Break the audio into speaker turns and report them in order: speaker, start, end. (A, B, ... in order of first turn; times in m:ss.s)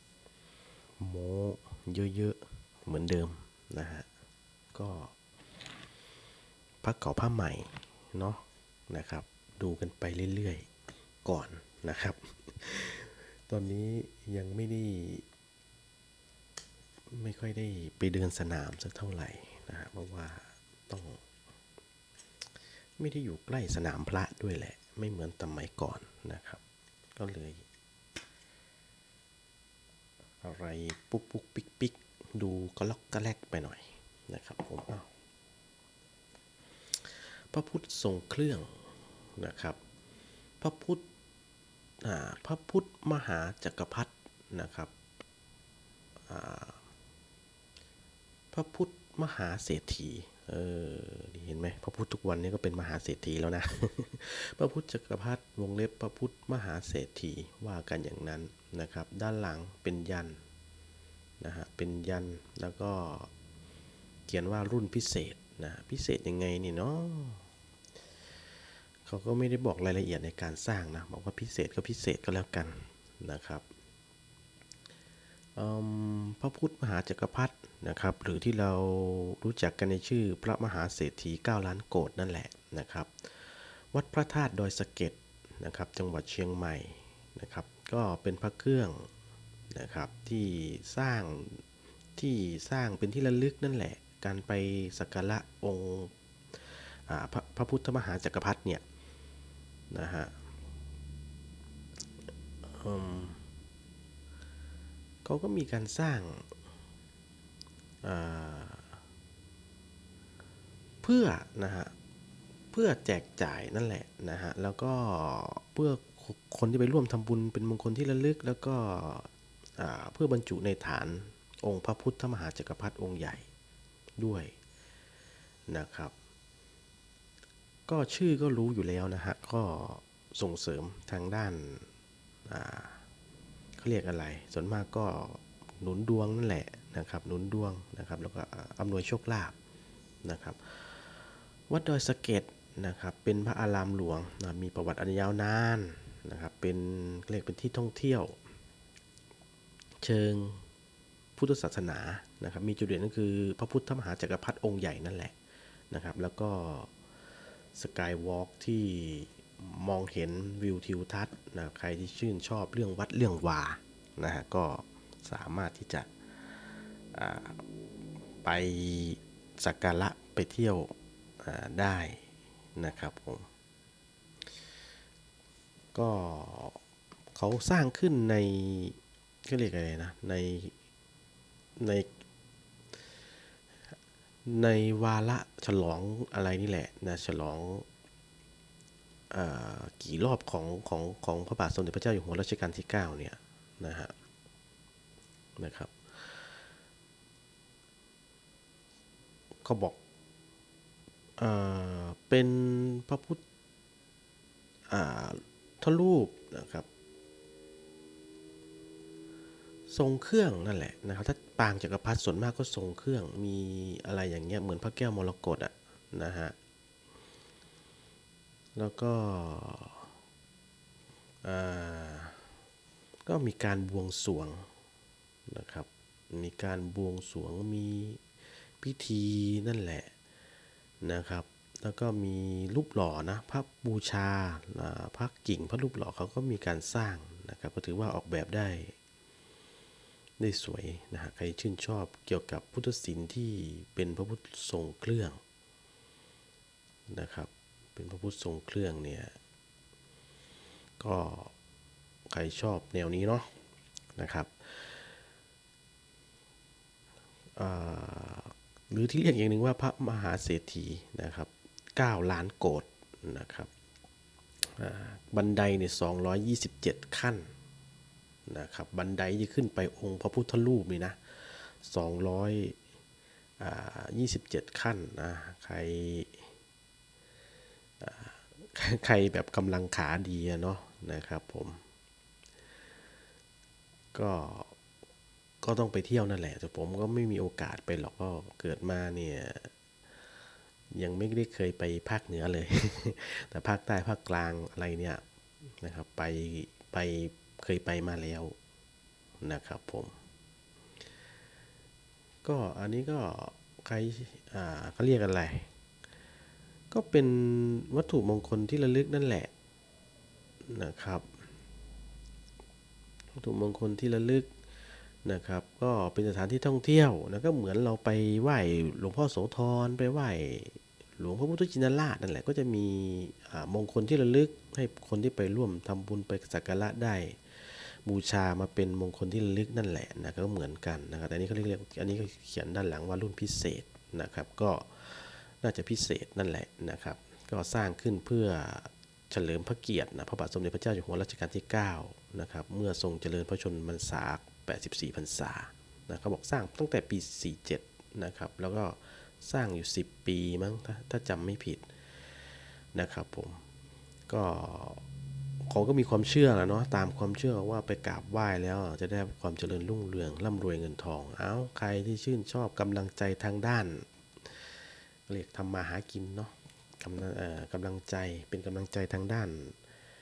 0:01.0-0:04.1 A
0:04.7-0:05.1 A
0:06.8-0:10.7 A
0:11.2-0:15.2 A
0:17.1-0:21.2 A
0:23.0-0:26.6 A
0:27.2-0:27.6 A
0:30.4-0:35.1 A
0:37.0-0:38.7 A
0:39.4-0:39.8 A
0:40.6-0:41.0 A
0:42.0-0:44.9 A
0:46.3-0:46.8 A
0:48.5-1:00.4 A
1:01.4-1:03.3 A
1:04.3-1:07.5 A
1:09.0-1:13.6 A
1:15.6-1:29.1 A
1:29.7-1:31.6 A
1:32.2-1:38.8 A
1:39.9-1:40.4 A
1:42.6-1:43.4 A
1:45.2-1:46.5 A
1:48.0-1:49.0 A
1:51.0-1:51.9 A
1:52.7-2:03.5 A
2:04.2-2:04.6 A
2:05.7-2:06.1 A
2:07.9-2:11.9 A
2:12.5-2:13.0 A
2:13.8-2:19.6 A
2:20.2-2:28.4 A
2:30.0-2:30.7 A
2:31.4-2:35.4 A
2:35.9-2:36.9 A
2:37.8-2:46.5 A
2:47.1-2:47.6 A
2:48.4-2:53.5 A
2:55.9-2:56.8 A
2:57.3-3:00.7 A
3:01.8-3:02.1 A
3:04.4-3:07.9 A
3:09.3-3:14.1 A
3:15.6-3:16.5 A
3:19.6-3:20.0 A
3:21.4-3:23.4 A
3:24.9-3:26.9 A
3:29.9-3:36.6 A
3:38.8-3:40.1 A
3:41.4-3:42.4 A
3:43.3-3:44.7 A
3:45.5-3:48.2 A
3:48.8-3:50.1 A
3:51.0-3:59.0 A
4:00.4-4:05.4 A
4:07.1-4:09.4 A
4:11.0-4:11.5 A
4:12.3-4:13.5 A
4:14.2-4:15.1 A
4:17.6-4:23.7 A
4:24.6-4:27.5 A
4:28.5-4:32.8 A
4:33.6-4:36.5 A
4:38.0-4:41.8 A
4:44.1-4:44.8 A
4:45.6-4:49.7 A
4:50.9-4:55.2 A
4:55.8-4:58.6 A
4:59.4-5:00.2 A
5:02.4-5:05.7 A
5:06.9-5:09.5 A
5:10.7-5:11.4 A
5:13.4-5:14.5 A
5:15.2-5:51.9 A
5:52.9-5:53.6 A
5:54.3-5:55.0 A
5:55.6-6:04.7 A
6:05.3-6:09.8 A